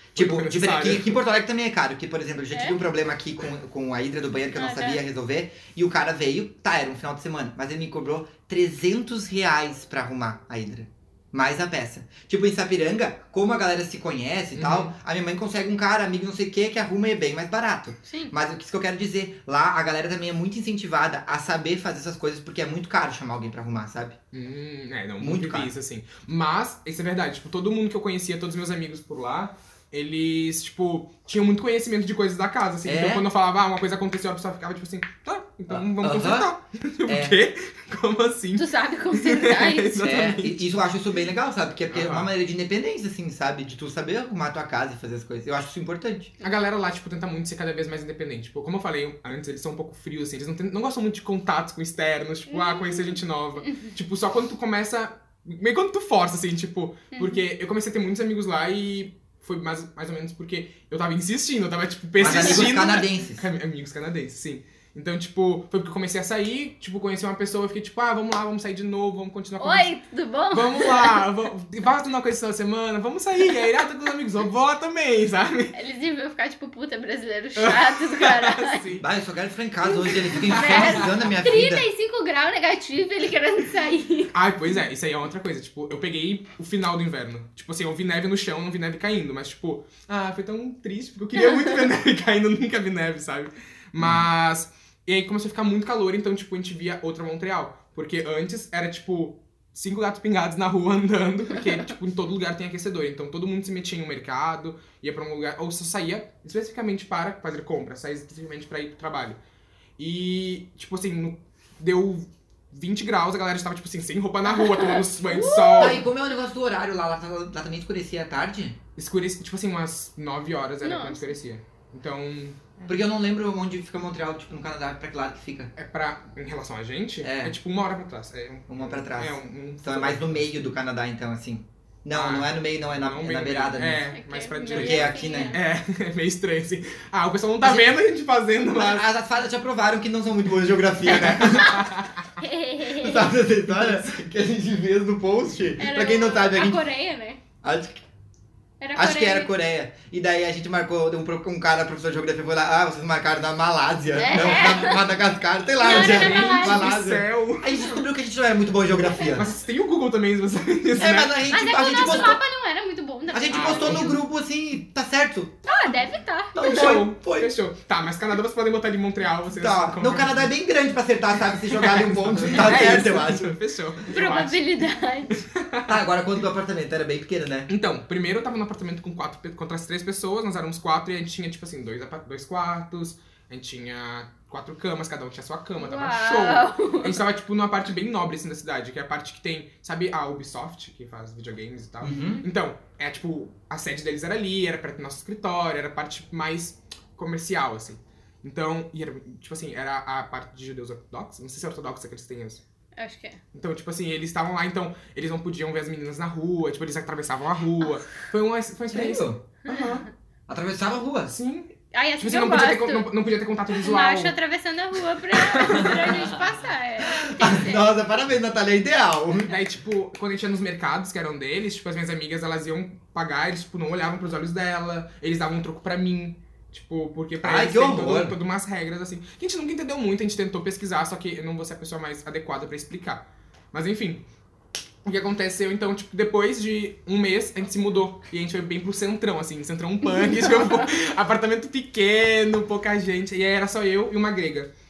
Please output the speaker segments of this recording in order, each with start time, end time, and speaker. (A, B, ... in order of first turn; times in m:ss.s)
0:00.1-0:01.2 A
0:00.1-0:24.2 B
0:04.5-0:05.0 C
0:14.5-0:14.9 A
0:18.0-0:18.3 C
0:24.3-0:40.6 A
0:25.2-0:25.7 B
0:32.8-0:33.3 B
0:35.7-0:36.5 B
0:37.1-0:37.4 B
0:38.5-0:40.2 C
0:40.0-0:46.3 B
0:41.9-0:42.3 A
0:46.4-1:09.9 A
0:52.5-0:53.9 C
0:57.1-0:57.4 C
1:02.2-1:03.4 B
1:09.6-1:11.2 C
1:10.5-1:15.7 A
1:15.7-1:18.8 C
1:17.6-1:19.0 A
1:19.0-1:21.8 B
1:19.8-1:24.3 C
1:20.4-1:21.1 A
1:24.3-1:49.4 A
1:34.0-1:34.3 B
1:50.0-1:56.0 A
1:54.4-1:56.0 C
1:55.8-1:58.8 B
1:59.0-2:02.8 A
2:00.8-2:01.4 C
2:02.8-2:05.7 B
2:05.8-2:10.5 A
2:07.2-2:07.6 B
2:08.7-2:14.0 B
2:12.1-2:19.0 A
2:14.1-2:15.6 C
2:14.6-2:15.6 B
2:17.6-2:18.0 B
2:18.7-2:21.9 B
2:21.1-2:22.2 A
2:22.4-2:23.3 C
2:23.0-2:26.8 B
2:23.8-2:24.0 A
2:25.8-2:27.4 C
2:27.6-2:28.0 B
2:28.8-2:29.5 C
2:28.9-2:39.5 B
2:34.1-2:35.1 C
2:35.8-2:36.9 C
2:35.8-2:37.8 A
2:39.3-2:41.4 A
2:40.9-2:42.4 B
2:41.5-2:44.2 C
2:42.0-2:42.3 A
2:43.3-2:45.6 B
2:43.5-2:44.2 A
2:45.6-2:46.9 C
2:46.5-2:47.5 B
2:46.6-2:50.5 A
2:49.5-2:53.6 B
2:51.7-2:56.0 A
2:54.1-2:55.4 C
2:55.9-2:57.7 B
2:57.7-3:22.6 A
3:05.8-3:07.2 C
3:12.0-3:12.4 B
3:23.0-3:23.4 C
3:23.5-3:30.1 A
3:28.9-3:29.4 B
3:30.5-3:31.3 B
3:31.3-3:34.3 A
3:31.9-3:33.1 C
3:33.7-3:37.8 C
3:35.3-3:36.2 A
3:37.0-3:39.5 B
3:39.4-3:54.2 A
3:47.4-3:48.4 B
3:55.0-4:04.7 A